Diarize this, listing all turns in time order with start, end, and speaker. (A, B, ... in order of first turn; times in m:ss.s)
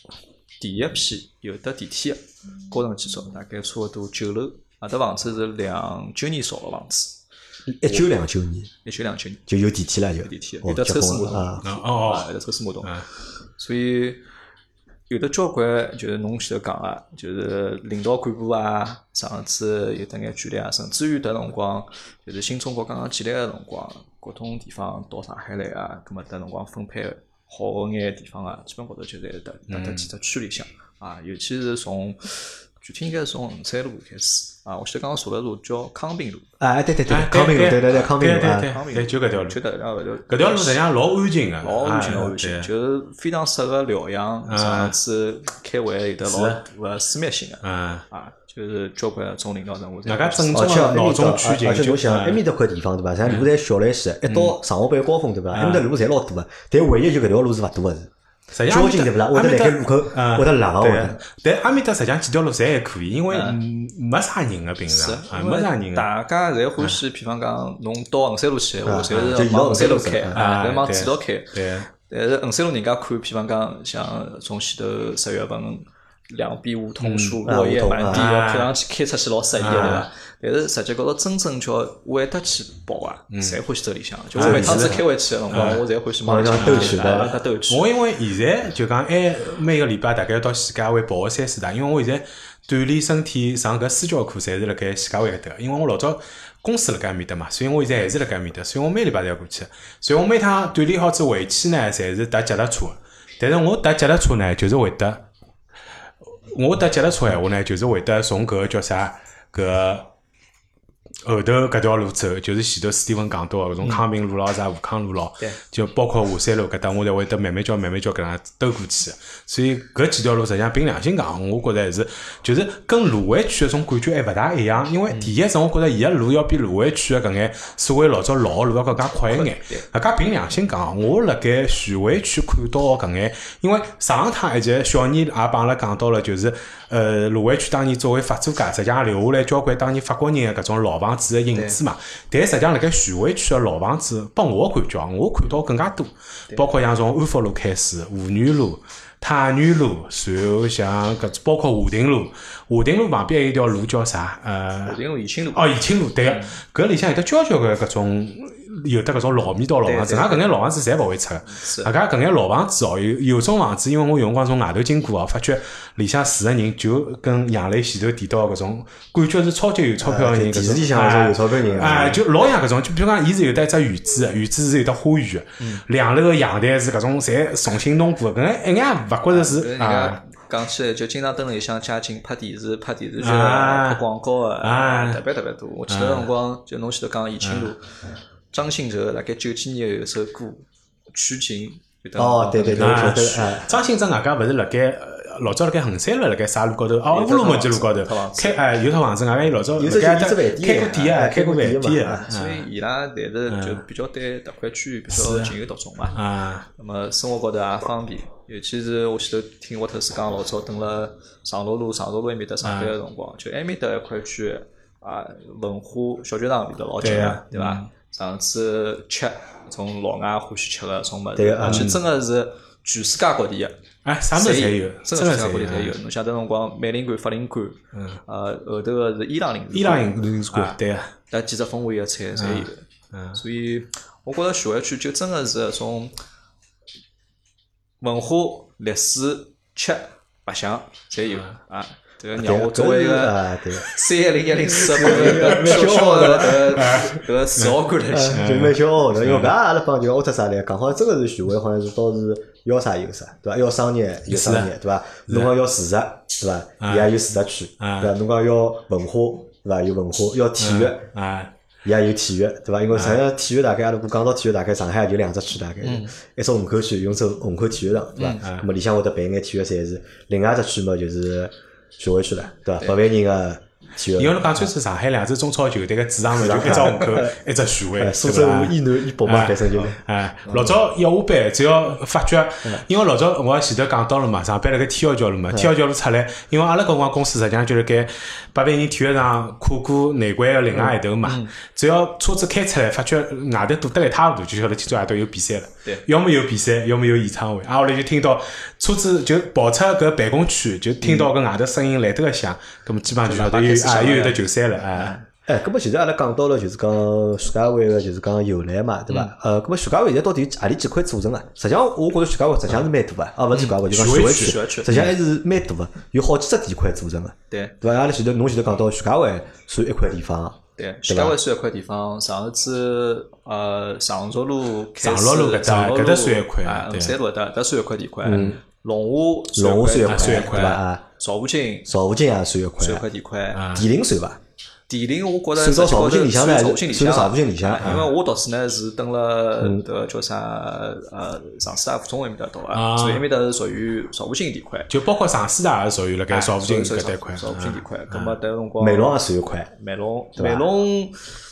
0:00.6-0:07.2 A
0:07.7-0:08.7 B
0:08.8-0:09.5 A
0:09.5-0:11.7 B
0:10.2-0:14.2 A
0:11.6-0:12.3 C
0:15.1-0:36.5 A
0:29.7-0:30.1 C
0:36.6-0:38.7 B
0:37.1-0:39.6 C
0:37.9-0:40.8 A
0:40.3-0:42.7 C
0:41.6-0:50.7 A
0:44.5-0:44.9 C
0:46.2-0:46.6 C
0:47.6-0:48.0 C
0:50.0-0:52.4 C
0:50.5-0:58.1 B
0:54.2-0:54.6 C
0:55.5-0:55.8 C
0:58.5-1:06.1 C
0:58.7-1:01.2 B
1:03.3-1:03.6 A
1:04.9-1:27.9 A
1:08.8-1:10.4 B
1:10.3-1:11.9 C
1:17.0-1:17.4 C
1:17.4-1:18.3 B
1:18.1-1:18.7 C
1:19.6-1:20.1 C
1:23.3-1:23.6 C
1:24.4-1:25.8 C
1:24.4-1:24.9 B
1:26.2-1:27.3 B
1:26.6-1:45.2 C
1:46.5-1:50.1 C
1:51.2-2:35.0 C
2:09.3-2:09.8 A
2:21.5-2:21.8 A
2:34.8-2:35.7 A
2:35.5-3:00.2 C
2:36.2-2:36.6 A
2:39.8-2:40.5 A
2:41.4-2:41.9 A
2:50.0-2:52.2 B
2:59.3-3:07.9 A
3:03.2-3:04.0 C
3:04.6-3:05.2 C
3:05.9-3:06.3 C
3:07.4-3:07.7 C
3:08.5-3:13.3 A
3:12.2-3:13.8 B
3:12.8-3:22.7 C
3:17.1-3:18.6 A
3:19.8-3:22.2 B
3:22.0-3:26.2 A
3:23.5-3:23.8 C
3:25.1-3:25.5 C
3:26.1-3:26.6 C
3:26.8-3:43.7 A
3:32.6-3:32.9 C
3:37.0-3:37.9 C
3:41.4-3:41.9 B
3:41.6-3:42.0 C
3:44.0-3:45.9 C
3:44.3-3:50.8 A
3:47.9-3:48.2 C
3:49.7-3:51.1 C
3:51.3-3:56.1 A
3:52.4-3:53.4 C
3:58.0-4:08.5 A
4:02.4-4:03.8 B
4:04.9-4:07.0 B
4:05.1-4:07.8 C
4:08.1-4:21.0 B
4:08.3-4:09.5 C
4:14.3-4:14.7 C
4:15.3-4:15.5 C
4:16.8-4:17.1 C
4:17.8-4:18.1 C
4:20.6-4:21.5 C
4:21.8-4:34.7 B
4:22.9-4:23.2 C
4:25.8-4:26.2 A
4:28.2-4:28.4 A
4:34.2-5:05.2 C
4:36.3-4:37.4 B
4:38.0-4:40.8 B
4:50.7-4:51.5 A
5:01.0-5:01.3 A
5:03.2-5:04.4 A
5:04.9-5:05.2 A
5:05.4-5:21.4 B
5:13.5-5:15.1 A
5:13.9-5:15.1 C
5:17.5-5:17.8 A
5:20.8-5:31.9 A
5:25.0-5:27.2 C
5:28.2-5:28.6 B
5:29.5-5:31.0 B
5:30.1-5:30.8 C
5:31.8-5:33.0 B
5:32.8-5:33.7 A
5:33.5-5:33.9 C
5:33.7-5:34.4 B
5:34.9-5:44.9 A
5:35.6-5:38.0 B
5:37.8-5:38.1 C
5:42.7-5:43.2 C
5:44.9-5:48.4 C
5:46.3-5:49.2 A
5:48.8-5:49.7 B
5:49.8-5:51.1 A
5:50.4-5:50.6 B